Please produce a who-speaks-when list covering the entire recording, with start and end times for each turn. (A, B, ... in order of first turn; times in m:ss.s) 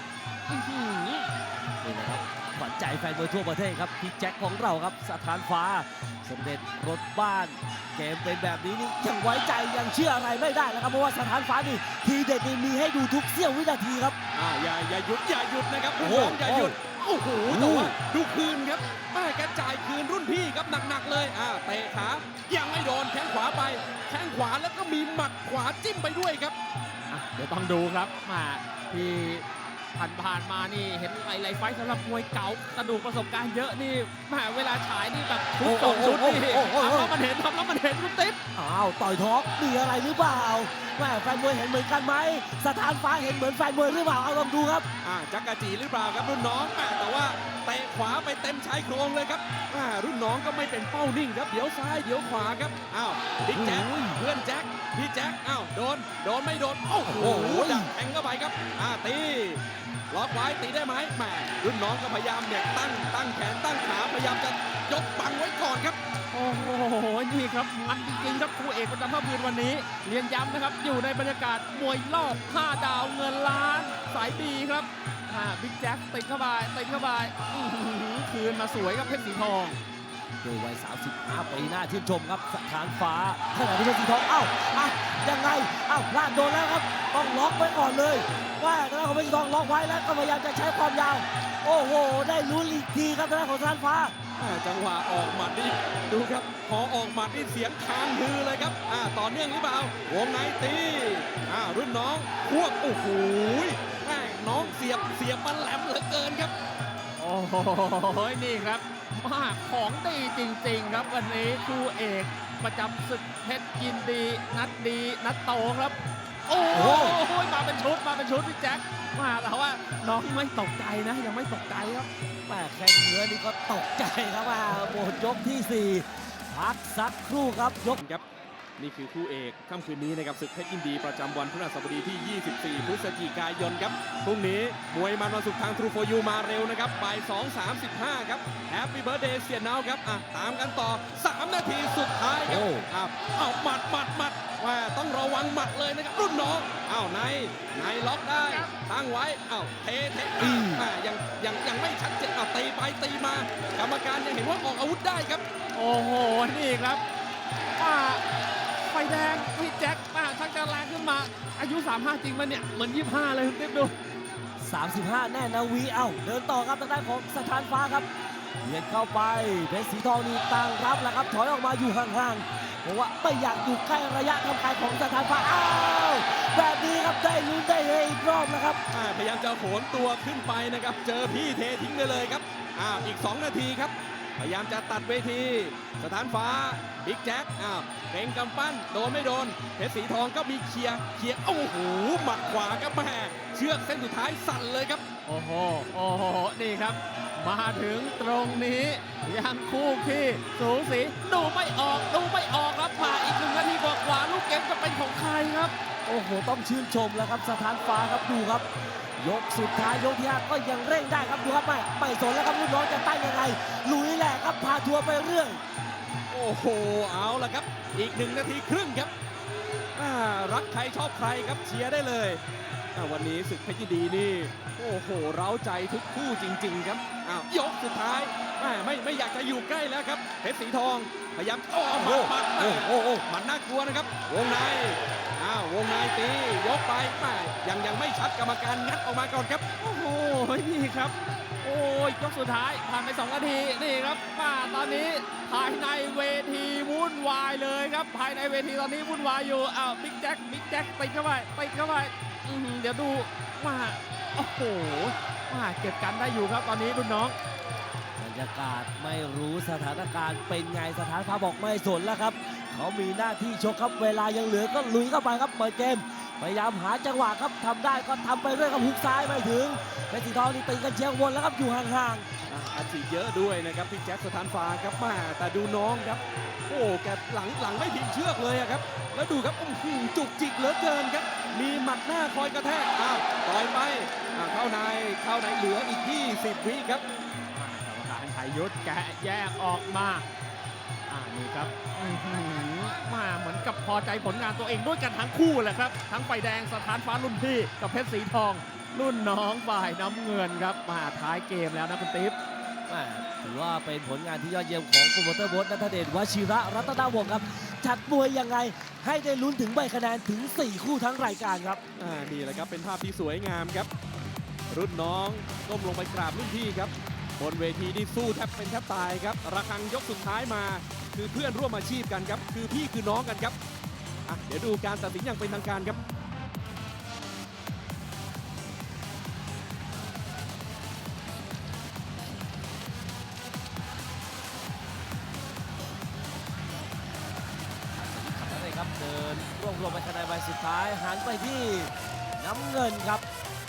0:00.5-0:01.3 A
0:01.8-0:14.2 B
0:14.3-0:26.6 C
0:16.0-0:16.8 B
0:17.5-0:17.9 B
0:27.1-0:38.4 A
0:35.6-0:37.1 B
0:38.5-0:44.9 B
0:45.0-1:06.0 C
0:53.5-0:54.2 B
0:57.0-0:57.9 B
1:06.3-1:19.8 A
1:20.4-1:34.2 B
1:34.4-1:46.5 C
1:47.2-2:02.1 A
1:56.7-1:57.2 B
2:02.5-2:08.0 B
2:08.0-2:08.2 C
2:08.8-2:35.4 C
2:22.5-2:22.9 B
2:30.4-2:30.9 B
2:35.8-2:37.0 A
2:37.8-2:38.2 A
2:38.8-2:43.9 A
2:44.6-2:48.1 B
2:48.6-2:58.8 B
2:58.9-3:15.0 C
3:15.3-3:25.7 A
3:26.1-3:28.7 B
3:29.2-3:35.6 B
3:36.3-3:39.1 C
3:40.0-3:42.4 C
3:43.0-3:59.6 C
3:52.0-3:53.2 B
3:59.8-4:17.4 A
4:18.2-4:32.3 B
4:32.5-4:47.0 C
4:47.5-4:50.2 A
4:51.1-5:02.4 A
5:02.9-5:11.8 B
5:12.0-5:13.9 C
5:14.7-5:23.6 C
5:24.3-5:26.0 C
5:37.9-5:43.2 B